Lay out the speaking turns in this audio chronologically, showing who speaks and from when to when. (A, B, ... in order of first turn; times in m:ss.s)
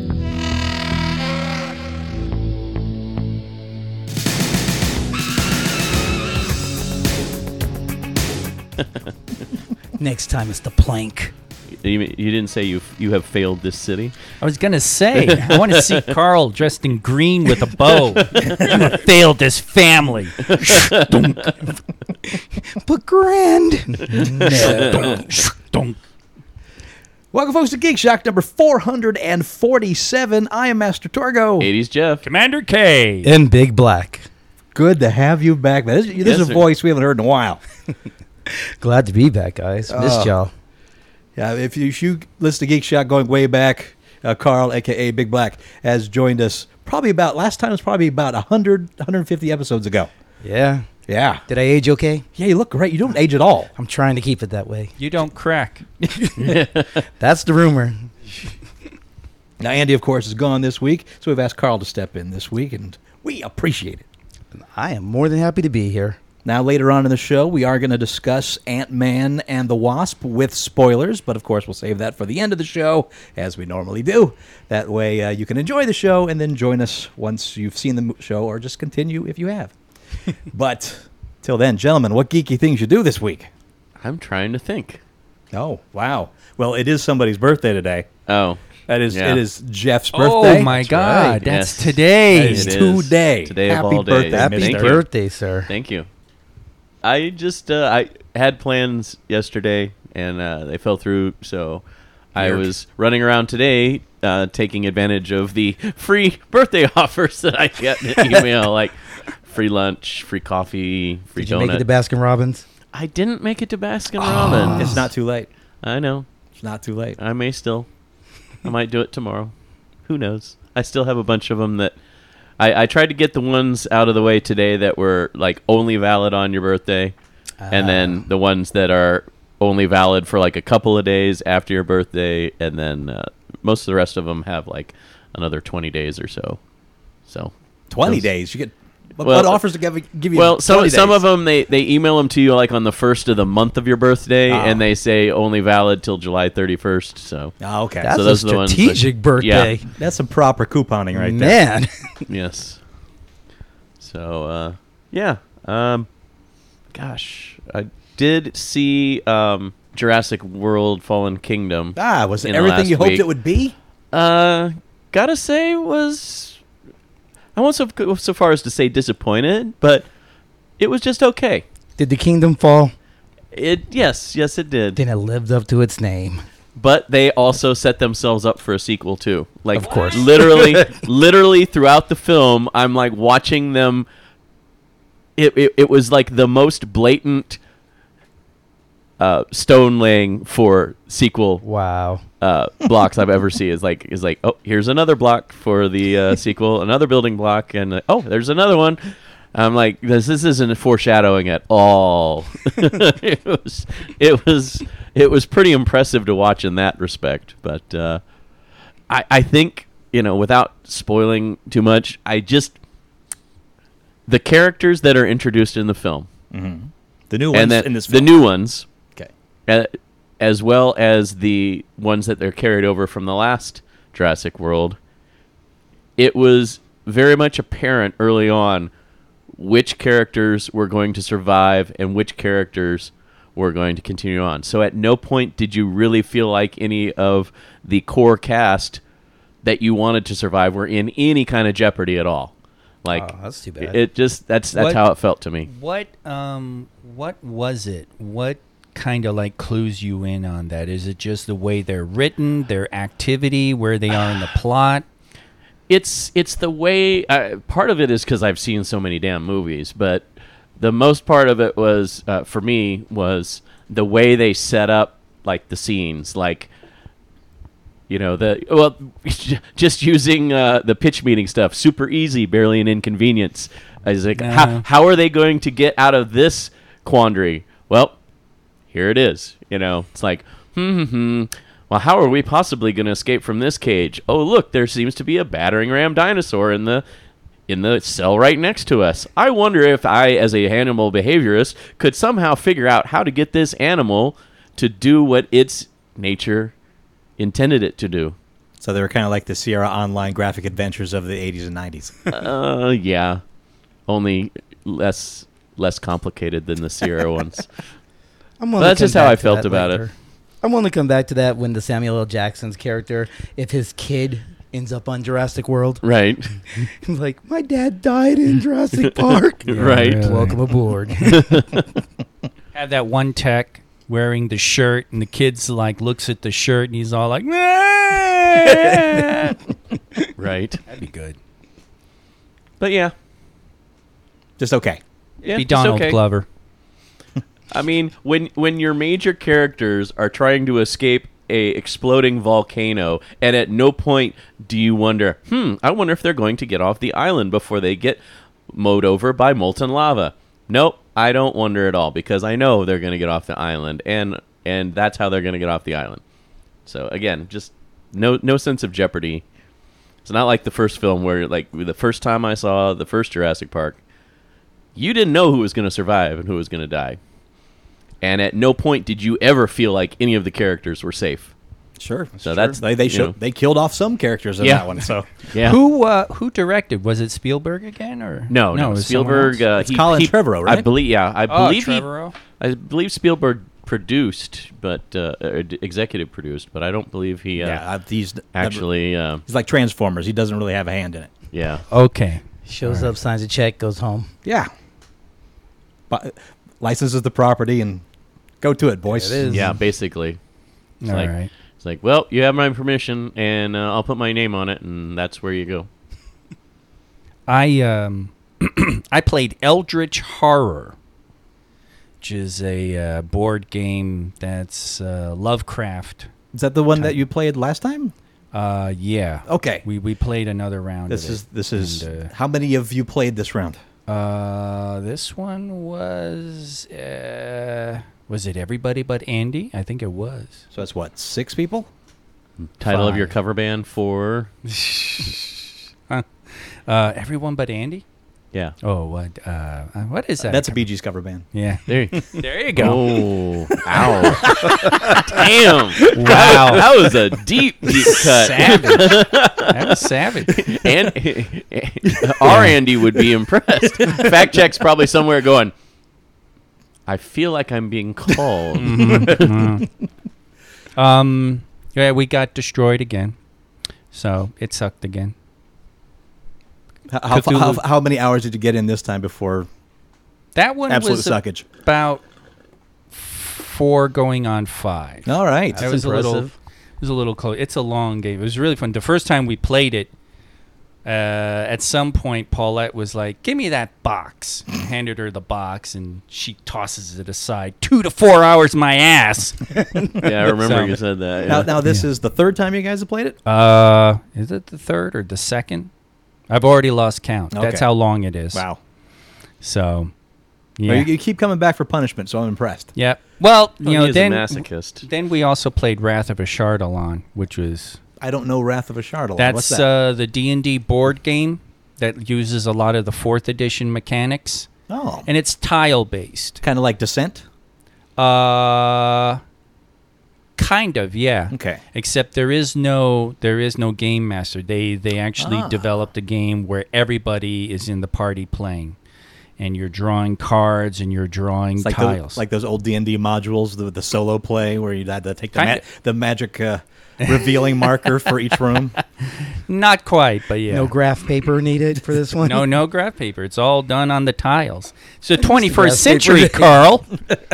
0:10.0-0:11.3 A
0:11.8-0:14.2 B
0:14.4-0:21.5 C
0:15.2-0:16.1 B
0:18.2-0:18.5 B
0:20.5-0:21.5 B
0:22.3-0:25.5 A
0:24.2-0:24.8 D
0:24.4-0:26.0 C
0:27.3-0:31.7 D
0:31.6-0:32.2 B
0:32.2-0:33.3 C
0:33.2-0:34.2 A
0:34.7-0:37.6 D
0:36.2-0:36.6 B
0:38.5-0:40.5 A
0:39.9-0:40.3 D
0:41.4-0:50.1 D
0:50.4-0:50.9 A
0:51.1-0:51.4 D
0:51.5-0:52.2 A
0:52.4-0:53.7 D
0:53.8-0:54.9 A
0:55.0-0:55.8 C
0:56.0-0:56.6 A
0:56.4-0:57.0 B
0:57.2-0:58.1 A
0:59.6-1:04.0 D
1:04.5-1:06.2 A
1:06.4-1:19.7 D
1:20.5-1:23.5 D
1:24.0-1:25.0 B
1:25.5-1:28.1 D
1:28.3-1:29.4 B
1:28.9-1:30.7 D
1:30.1-1:32.8 C
1:30.6-1:31.4 A
1:31.4-1:35.0 B
1:32.3-1:35.0 D
1:34.3-1:35.7 A
1:35.7-1:36.1 B
1:37.0-1:41.8 B
1:42.3-1:48.9 B
1:42.4-1:42.7 D
1:49.5-1:51.8 B
1:51.4-1:52.6 A
1:52.9-1:55.0 B
1:54.3-1:54.8 A
1:54.4-1:55.0 C
1:54.7-1:55.5 D
1:55.8-1:56.2 B
1:56.6-1:57.2 D
1:57.2-1:57.9 B
1:58.6-1:59.5 B
2:00.0-2:01.9 B
2:02.6-2:07.1 B
2:07.6-2:08.2 A
2:07.7-2:16.6 B
2:17.3-2:18.2 B
2:17.9-2:21.2 D
2:19.2-2:19.6 B
2:20.3-2:27.5 B
2:24.5-2:24.8 D
2:27.6-2:28.1 D
2:28.0-2:29.9 A
2:28.1-2:29.7 B
2:30.0-2:31.6 D
2:31.1-2:32.2 A
2:32.3-2:32.8 B
2:34.0-2:36.1 B
2:36.9-2:43.2 B
2:42.0-2:43.7 D
2:44.1-2:46.6 B
2:47.5-2:50.1 B
2:50.8-2:51.6 B
2:52.0-2:52.9 A
2:53.5-2:55.0 B
2:55.0-2:56.4 A
2:56.8-3:04.0 B
2:59.7-3:01.0 A
2:59.9-3:00.2 C
3:05.4-3:07.6 B
3:09.2-3:11.6 B
3:11.6-3:12.2 A
3:12.4-3:19.0 B
3:19.5-3:28.2 B
3:29.1-3:32.8 B
3:34.3-3:36.3 B
3:36.5-3:38.3 D
3:37.5-3:38.8 B
3:39.7-3:45.0 B
3:46.2-3:48.9 B
3:49.6-3:59.0 B
3:59.6-4:02.5 B
4:03.0-4:05.7 B
4:03.1-4:04.0 A
4:04.7-4:05.0 C
4:05.6-4:15.0 C
4:15.9-4:20.2 B
4:20.8-4:26.7 B
4:28.1-4:38.2 B
4:34.4-4:34.8 C
4:38.9-4:47.0 B
4:47.7-4:56.7 B
4:57.4-4:58.4 B
4:58.8-5:02.3 D
5:02.3-5:03.4 B
5:04.1-5:07.7 B
5:08.6-5:16.0 A
5:08.8-5:10.0 B
5:16.0-5:16.5 B
5:16.7-5:21.6 A
5:19.0-5:20.4 B
5:19.7-5:20.6 C
5:21.2-5:21.8 B
5:22.7-5:29.6 C
5:30.4-5:30.8 B
5:30.9-5:31.4 C
5:32.8-5:33.1 B
5:34.6-5:35.0 D
5:35.4-5:36.2 B
5:35.4-5:36.4 C
5:37.7-5:56.2 B
5:56.8-5:59.4 B
6:00.2-6:04.0 B
6:05.0-6:07.2 B
6:08.2-6:11.5 B
6:12.0-6:15.3 D
6:12.4-6:13.3 B
6:14.6-6:14.9 B
6:15.5-6:15.8 B
6:15.6-6:19.6 C
6:18.5-6:22.1 B
6:19.8-6:20.9 D
6:21.5-6:22.3 C
6:22.6-6:27.8 B
6:27.6-6:28.8 D
6:28.5-6:29.4 B
6:29.4-6:31.3 D
6:31.5-6:31.8 B
6:31.9-6:33.1 C
6:32.6-6:34.3 A
6:34.4-6:34.7 D
6:36.1-6:38.0 D
6:38.6-6:39.7 D
6:39.1-6:39.8 A
6:39.5-6:40.4 B
6:41.0-6:41.5 C
6:41.1-6:45.9 B
6:47.5-6:51.0 C
6:52.2-6:56.3 C
6:56.5-6:58.1 D
6:58.5-7:02.3 C
6:59.4-6:59.8 D
7:01.1-7:03.8 D
7:04.1-7:10.6 C
7:10.7-7:11.9 D
7:12.6-7:14.5 B
7:12.8-7:13.3 C
7:14.6-7:18.0 C
7:18.8-7:20.9 C
7:20.4-7:21.4 D
7:21.5-7:23.8 C
7:21.9-7:35.7 B
7:24.6-7:25.2 A
7:26.1-7:26.9 C
7:27.9-7:30.6 C
7:32.4-7:32.8 C
7:37.1-7:39.7 B
7:38.8-7:39.9 C
7:41.0-7:43.4 C
7:44.1-7:45.3 C
7:47.1-7:49.7 D
7:47.3-7:47.8 C
7:50.5-7:52.2 C
7:50.9-7:51.6 D
7:53.1-7:56.5 C
7:55.2-7:55.8 D
7:55.7-7:56.5 A
7:57.0-8:00.1 C
8:01.0-8:11.0 C
8:10.1-8:11.7 B
8:11.5-8:13.4 D
8:13.4-8:15.9 C
8:16.5-8:18.6 C
8:17.5-8:17.9 D
8:18.5-8:18.8 D
8:19.6-8:20.1 C
8:20.8-8:21.1 C
8:20.9-8:22.9 D
8:23.0-8:28.0 C
8:23.8-8:25.0 B
8:28.2-8:29.9 D
8:29.4-8:34.7 C
8:34.9-8:35.3 D
8:35.2-8:36.6 C
8:36.6-8:37.4 D
8:38.2-8:39.4 C
8:40.6-8:49.0 C
8:41.5-8:41.8 D
8:45.4-8:45.8 D
8:49.6-8:52.4 C
8:51.8-8:58.9 D
8:55.5-8:55.8 C
8:57.2-8:57.8 C
8:59.4-9:00.9 C
9:00.7-9:02.7 A
9:02.4-9:07.1 C
9:05.4-9:06.8 A